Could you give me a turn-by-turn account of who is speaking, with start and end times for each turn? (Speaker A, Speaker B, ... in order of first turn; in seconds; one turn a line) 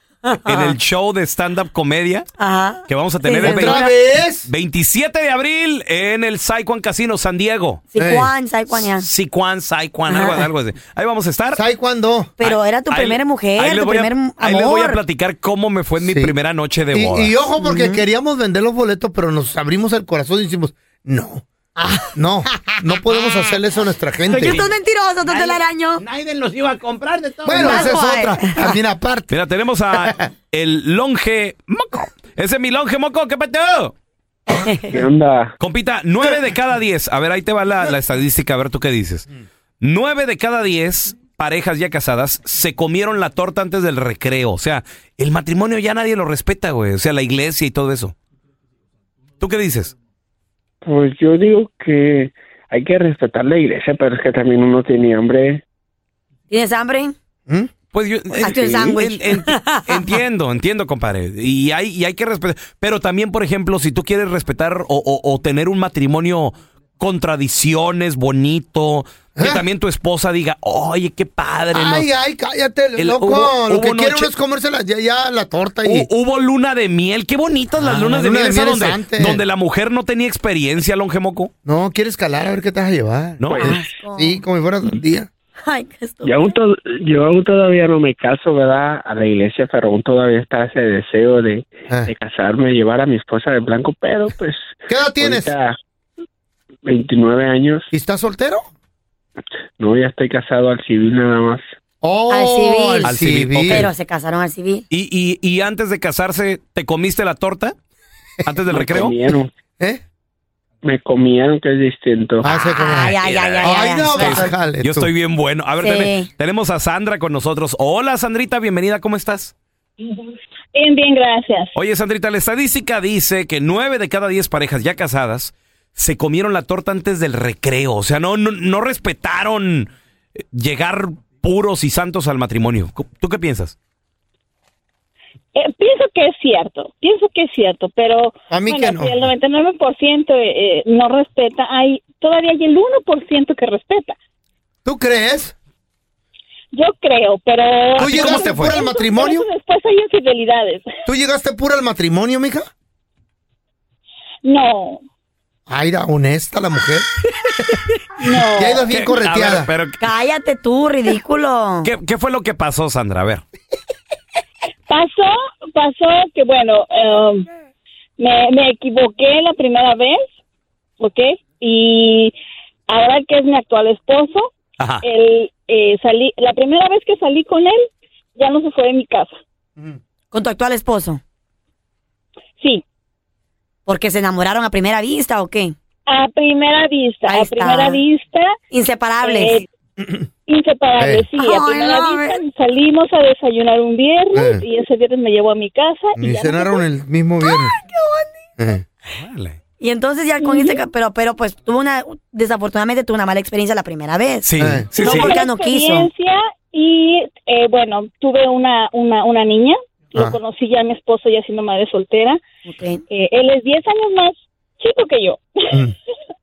Speaker A: 0.2-0.8
Speaker B: 0.4-2.3
Speaker A: 2.4-3.9
Speaker B: 2.9-3.9
Speaker C: 3.4-4.5
Speaker B: 4.4-7.8
Speaker A: 7.9-9.1
Speaker C: 8.0-8.3
Speaker B: 8.7-11.6
Speaker A: 10.1-10.5
Speaker C: 11.6-12.3
Speaker A: 12.4-15.0
Speaker B: 12.4-17.4
Speaker C: 16.0-16.4
Speaker C: 16.9-21.4
Speaker A: 17.6-18.0
Speaker A: 21.8-23.6
Speaker C: 22.1-24.6
Speaker D: 24.3-24.7
Speaker A: 24.4-26.1
Speaker D: 25.3-27.9
Speaker C: 27.4-29.4
Speaker A: 27.5-28.8
Speaker B: 29.3-33.9
Speaker A: 34.6-35.0
Speaker E: 34.9-35.5
Speaker B: 35.6-39.3
Speaker B: 39.8-48.1
Speaker B: 49.4-49.9
Speaker E: 50.8-55.6
Speaker A: 56.5-57.1
Speaker B: 57.9-72.1
Speaker A: 58.4-60.2
Speaker C: 69.4-69.7
Speaker C: 71.7-76.1
Speaker B: 73.0-74.3
Speaker B: 75.8-81.5
Speaker C: 77.8-79.4
Speaker C: 81.6-85.3
Speaker B: 83.4-83.7
Speaker A: 83.6-84.4
Speaker A: 85.6-86.6
Speaker E: 86.2-95.8
Speaker C: 94.9-95.5
Speaker E: 96.8-97.9
Speaker C: 97.9-98.6
Speaker E: 99.8-101.6
Speaker C: 102.0-103.9
Speaker A: 102.3-103.2
Speaker B: 103.0-103.9
Speaker A: 103.7-104.9
Speaker B: 104.9-107.8
Speaker B: 108.4-109.1
Speaker E: 108.7-109.5
Speaker E: 110.8-112.5
Speaker C: 112.4-115.1
Speaker A: 112.5-114.5
Speaker B: 113.2-119.5
Speaker A: 115.8-116.3
Speaker F: 120.0-121.8
Speaker B: 121.8-133.8
Speaker F: 135.6-144.2
Speaker C: 138.5-139.3
Speaker C: 144.8-145.5
Speaker F: 146.7-150.8
Speaker C: 148.0-149.4
Speaker B: 148.0-148.6
Speaker C: 151.1-152.7
Speaker F: 154.4-155.0
Speaker C: 155.7-157.1
Speaker F: 158.2-158.8
Speaker C: 158.4-159.7
Speaker B: 158.9-160.0
Speaker A: 160.0-161.9
Speaker B: 161.8-163.4
Speaker F: 164.9-167.5
Speaker F: 168.2-170.2
Speaker F: 171.0-172.4
Speaker F: 172.9-179.4
Speaker B: 174.8-175.1
Speaker A: 180.3-181.2
Speaker A: 183.9-185.8
Speaker F: 186.1-188.6
Speaker A: 187.3-188.0
Speaker A: 188.7-189.6
Speaker F: 189.2-189.7
Speaker F: 190.4-196.8
Speaker C: 191.0-191.3
Speaker A: 191.4-192.4
Speaker C: 194.3-194.7
Speaker C: 196.2-197.8
Speaker A: 197.4-198.2
Speaker C: 198.6-198.8
Speaker B: 199.1-199.6
Speaker A: 199.8-206.1
Speaker F: 200.4-200.9
Speaker B: 204.4-205.3
Speaker C: 204.6-205.3
Speaker F: 205.2-212.4
Speaker A: 212.7-213.0
Speaker F: 213.1-215.8